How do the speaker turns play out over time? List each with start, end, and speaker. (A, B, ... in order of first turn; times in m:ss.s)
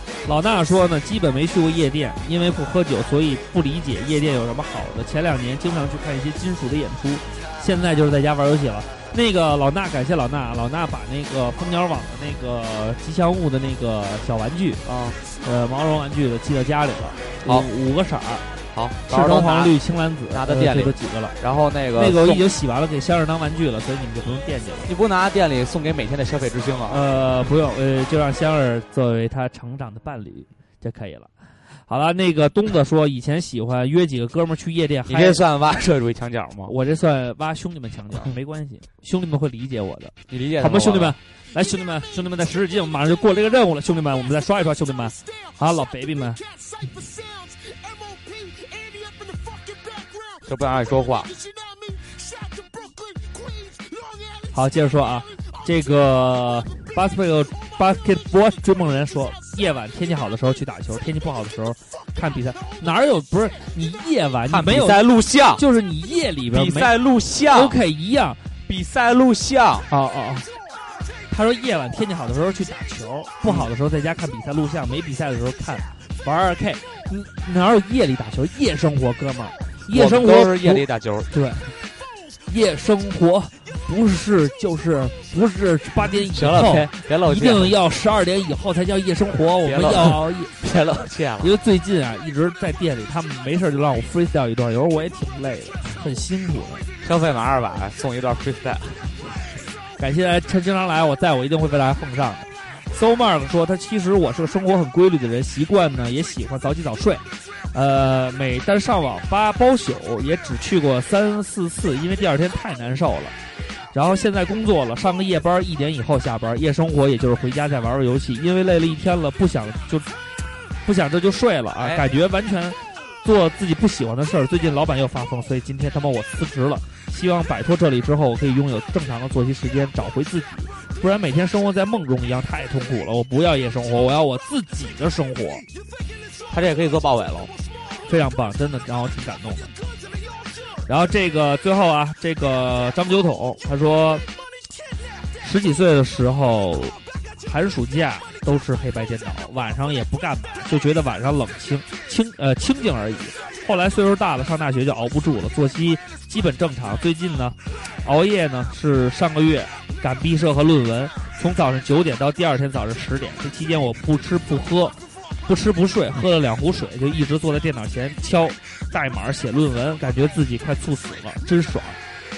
0:00.2-0:14.8 A
0:14.8-0:15.2 B
0:15.4-0:18.5 A
0:17.4-0:17.7 B
0:18.7-0:22.4 B
0:19.1-0:21.4 A
0:22.0-0:24.9 A
0:24.9-0:27.0 B
0:26.9-0:31.3 A
0:31.9-0:35.4 A
0:35.1-0:36.7 B
0:36.7-0:46.4 A
0:40.3-0:41.2 B
0:50.5-0:51.3 B
0:54.5-1:05.0 A
1:04.5-1:05.6 B
1:05.6-1:08.4 A
1:06.5-1:07.8 B
1:08.7-1:09.9 B
1:09.9-1:10.5 A
1:11.3-1:21.7 A
1:13.4-1:13.7 B
1:19.9-1:21.3 B
1:22.5-1:30.5 A
1:26.3-1:27.8 B
1:29.6-1:31.5 B
1:31.4-1:36.9 A
1:37.0-1:39.4 B
1:40.0-1:53.4 A
1:53.9-2:00.1 A
2:00.8-2:15.6 A
2:01.8-2:02.0 B
2:16.5-2:17.5 B
2:18.1-2:19.7 A
2:20.9-2:24.2 A
2:25.4-2:52.0 A